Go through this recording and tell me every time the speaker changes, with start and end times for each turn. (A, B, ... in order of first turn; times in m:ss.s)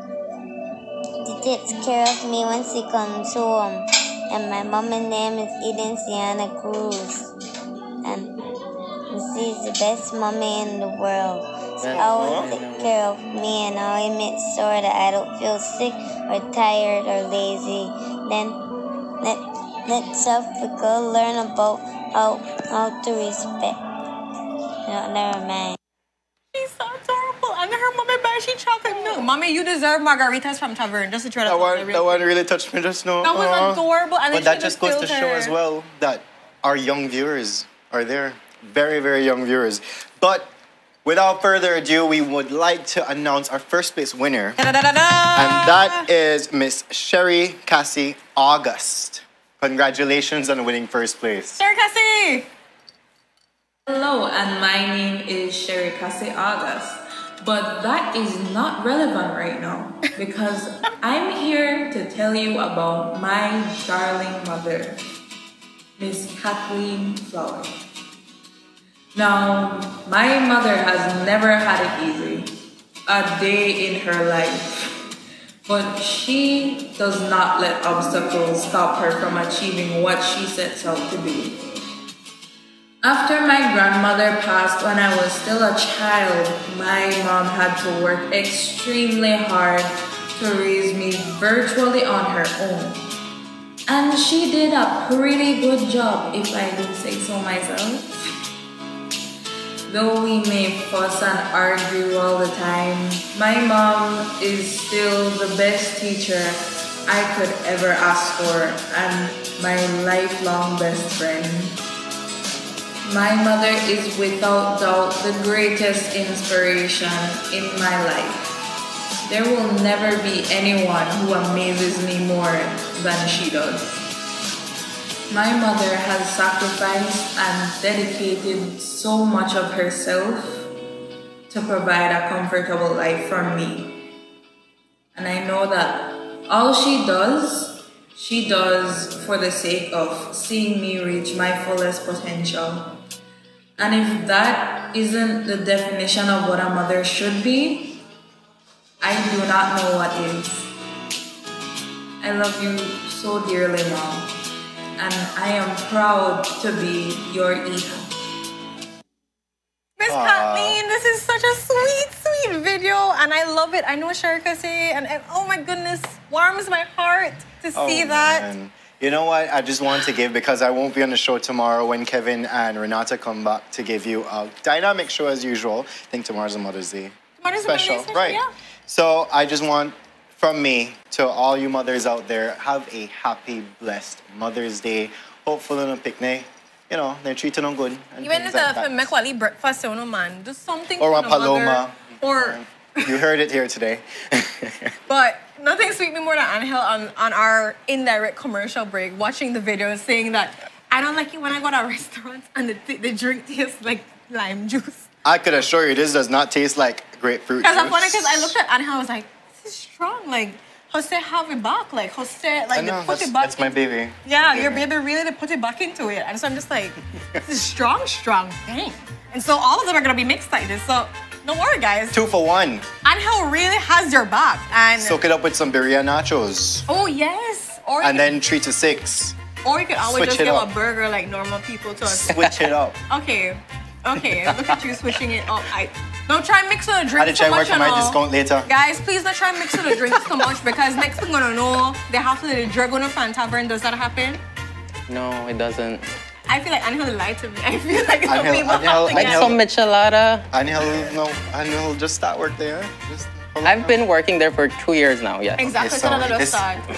0:01.2-0:07.3 A
0:08.0-0:08.4 A
0:09.1-0:18.6 A
0:11.8-0:13.0 B
0:11.9-0:12.5 C
0:19.2-0:23.8 A
0:24.8-0:25.8 A
0:26.5-0:32.2 D
0:31.4-0:40.5 C
0:33.2-0:35.5 D
0:41.0-0:44.6 C
0:44.6-0:46.0 D
0:45.3-0:51.6 C
0:51.6-0:52.5 D
0:53.9-1:05.0 E
1:06.0-1:07.7 E
1:09.1-1:15.0 E
1:15.6-1:21.8 E
1:23.0-1:33.1 E
1:33.9-1:38.2 E
1:39.9-1:51.8 E
1:53.0-1:58.6 E
1:59.2-2:04.0 E
2:05.3-2:10.7 E
2:11.5-2:14.0 E
2:15.1-2:23.0 E
2:23.8-2:28.0 E
2:29.0-2:30.7 E
2:32.2-2:34.3 E
2:35.0-2:38.1 E
2:40.0-2:48.5 D
2:40.1-2:40.8 C
2:47.7-3:09.1 C
2:57.4-2:58.4 D
3:08.2-3:13.2 D
3:11.0-3:14.9 C
3:15.1-3:25.0 D
3:25.2-3:28.5 C
3:27.6-3:42.2 D
3:32.7-3:34.8 C
3:42.1-3:42.9 C
3:43.0-3:45.2 D
3:45.0-3:46.8 C
3:46.9-3:48.3 D
3:48.0-3:49.4 C
3:49.6-3:52.5 D
3:50.0-3:50.7 C
3:52.0-3:53.0 C
3:53.1-4:04.4 D
3:57.2-3:58.7 C
3:59.7-4:00.0 C
4:05.1-4:06.0 B
4:06.5-4:09.5 D
4:08.2-4:09.6 C
4:09.1-4:10.4 B
4:10.5-4:14.0 C
4:13.6-4:15.7 B
4:15.6-4:16.8 D
4:15.7-4:16.7 C